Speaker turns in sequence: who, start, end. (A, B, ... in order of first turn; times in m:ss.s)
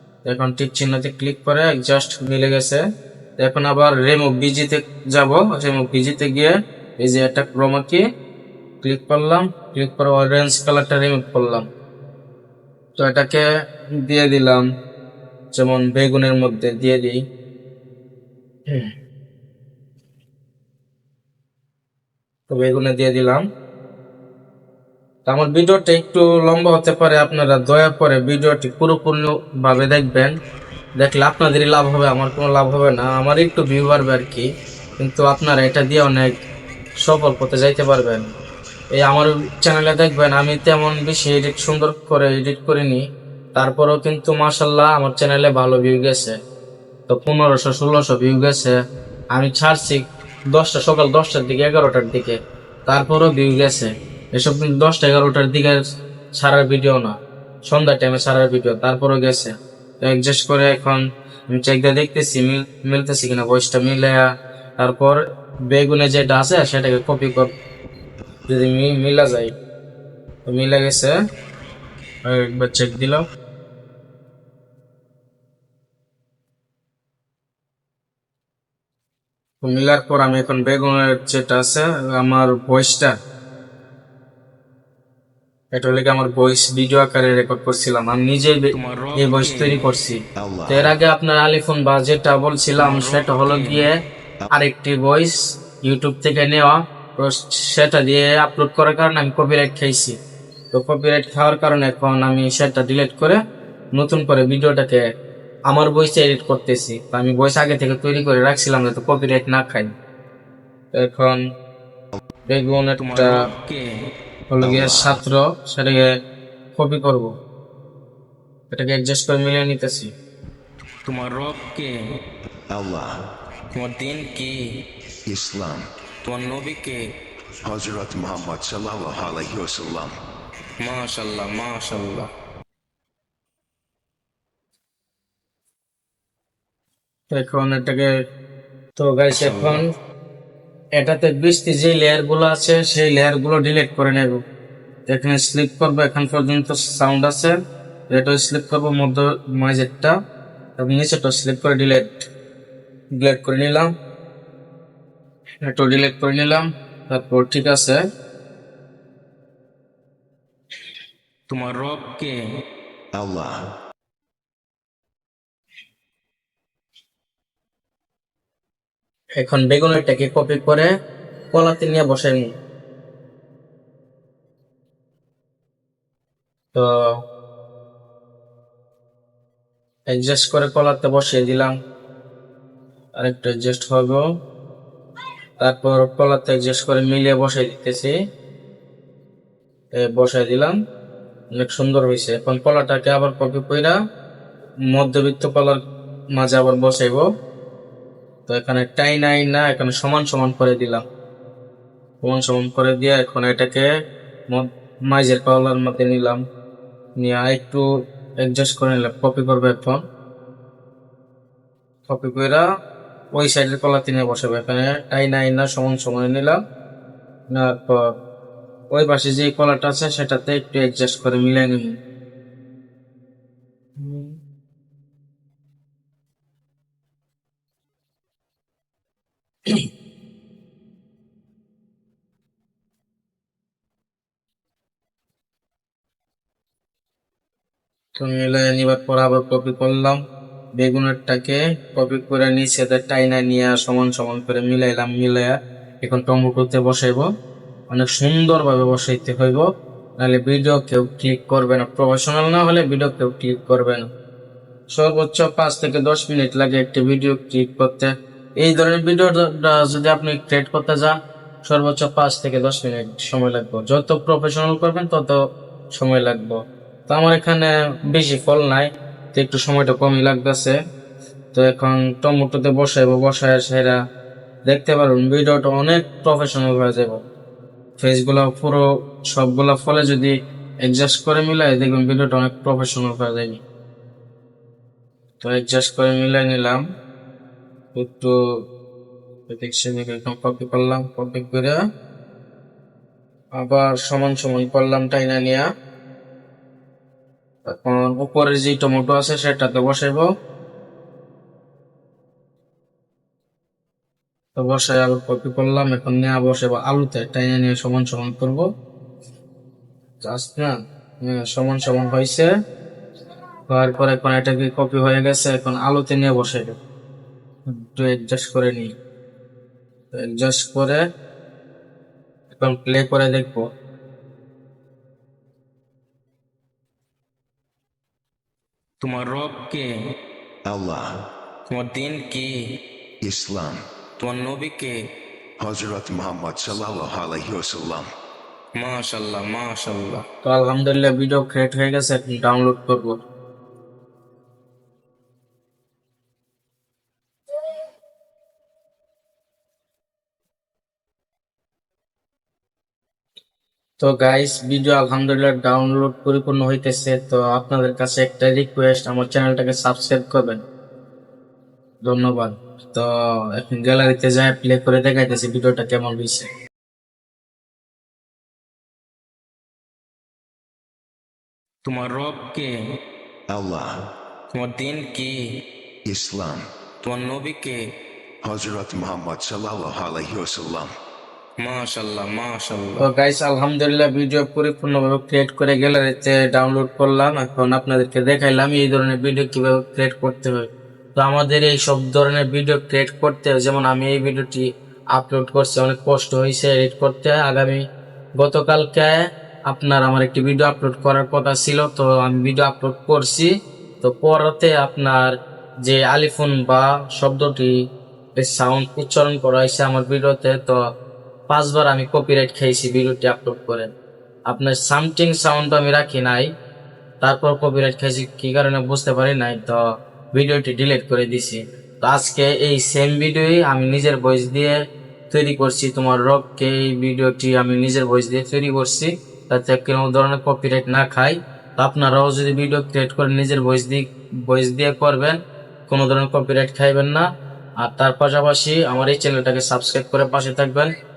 0:00.2-0:02.8 A
0:03.4-0:08.0 A
0:08.8-0:11.6 A
0:13.0-0:13.4 A
0:14.0-0:14.6 A
0:15.5-0:17.2 A
0:22.5-0:23.4 A
0:25.3-0:30.3 A
0:31.0-0:34.5 A
0:35.0-0:36.3 A
0:37.0-0:38.3 A
0:38.9-0:43.0 A
0:43.5-0:46.4 A
0:47.1-0:48.7 A
0:49.3-0:52.4 A
0:52.9-0:55.8 A
0:56.4-0:57.1 A
0:57.7-0:59.5 A
1:00.0-1:04.3 A
1:04.8-1:05.2 A
1:05.7-1:07.5 A
1:08.5-1:09.5 A
1:10.4-1:11.1 A
1:12.2-1:13.2 A
1:19.6-1:23.1 A
1:25.7-1:33.9 A
1:28.7-1:29.9 B
1:30.4-1:30.9 C
1:32.8-1:33.9 B
1:34.5-1:40.2 A
1:40.7-1:43.4 A
1:43.9-1:45.0 A
1:45.7-1:49.9 A
1:50.9-1:51.4 A
1:52.5-1:53.4 A
1:53.0-1:53.9 B
1:54.5-1:56.1 A
1:54.6-1:55.1 C
1:56.7-1:57.3 A
1:58.7-2:00.1 A
2:01.0-2:02.0 B
2:02.7-2:03.3 C
2:03.7-2:04.6 B
2:05.3-2:05.9 C
2:06.2-2:07.0 B
2:07.6-2:10.1 C
2:10.8-2:12.3 B
2:17.3-2:18.1 A
2:19.0-2:19.9 A
2:19.3-2:19.8 B
2:21.0-2:24.4 A
2:25.1-2:27.6 A
2:28.1-2:30.1 A
2:30.8-2:32.3 A
2:33.2-2:33.9 A
2:35.6-2:38.0 A
2:41.5-2:42.4 B
2:43.1-2:43.7 C
2:49.4-2:50.9 A
2:51.5-2:52.5 A
2:56.7-2:57.2 A
3:00.1-3:01.7 A
3:03.2-3:04.2 A
3:05.6-3:08.1 A
3:10.0-3:10.8 A
3:11.5-3:14.0 A
3:14.9-3:15.8 A
3:16.4-3:17.2 A
3:18.5-3:21.0 A
3:22.2-3:23.9 A
3:24.5-3:26.4 A
3:27.2-3:27.8 A
3:28.4-3:30.0 A
3:32.1-3:32.6 A
3:33.4-3:36.6 A
3:37.5-3:38.0 A
3:38.9-3:42.0 A
3:44.0-3:44.4 A
3:58.2-4:00.2 A
4:00.8-4:07.2 A
4:07.9-4:09.6 A
4:10.2-4:14.1 A
4:14.9-4:25.4 A
4:25.9-4:30.8 A
4:31.5-4:34.0 A
4:34.7-4:37.2 A
4:38.0-4:43.6 A
4:45.4-4:46.8 A
4:47.9-4:48.3 A
4:49.5-4:51.8 A
4:53.6-4:55.7 A
4:57.7-5:00.3 A
5:04.6-5:08.7 A
5:10.2-5:12.5 A
5:13.7-5:16.8 A
5:17.7-5:18.9 A
5:20.1-5:21.0 A
5:22.5-5:23.6 A
5:29.0-5:29.9 B
5:30.7-5:31.2 C
5:31.7-5:32.7 B
5:33.2-5:33.8 C
5:34.2-5:35.0 B
5:35.6-5:38.1 C
5:38.7-5:40.2 B
5:40.4-5:43.2 A
5:54.0-6:00.6 A
6:02.0-6:06.5 A
6:11.8-6:12.8 B
6:13.5-6:14.1 C
6:14.5-6:15.6 B
6:16.0-6:16.6 C
6:17.0-6:17.9 B
6:18.4-6:20.9 C
6:21.6-6:23.0 B
6:23.0-6:37.8 A
6:38.4-6:39.2 A
6:39.7-6:43.5 A
6:44.0-6:47.7 A
6:48.4-6:50.8 A
6:51.5-6:53.9 A
6:54.5-6:56.5 A
6:57.2-6:59.8 A
7:00.3-7:04.8 A
7:05.3-7:17.2 A
7:17.8-7:20.9 A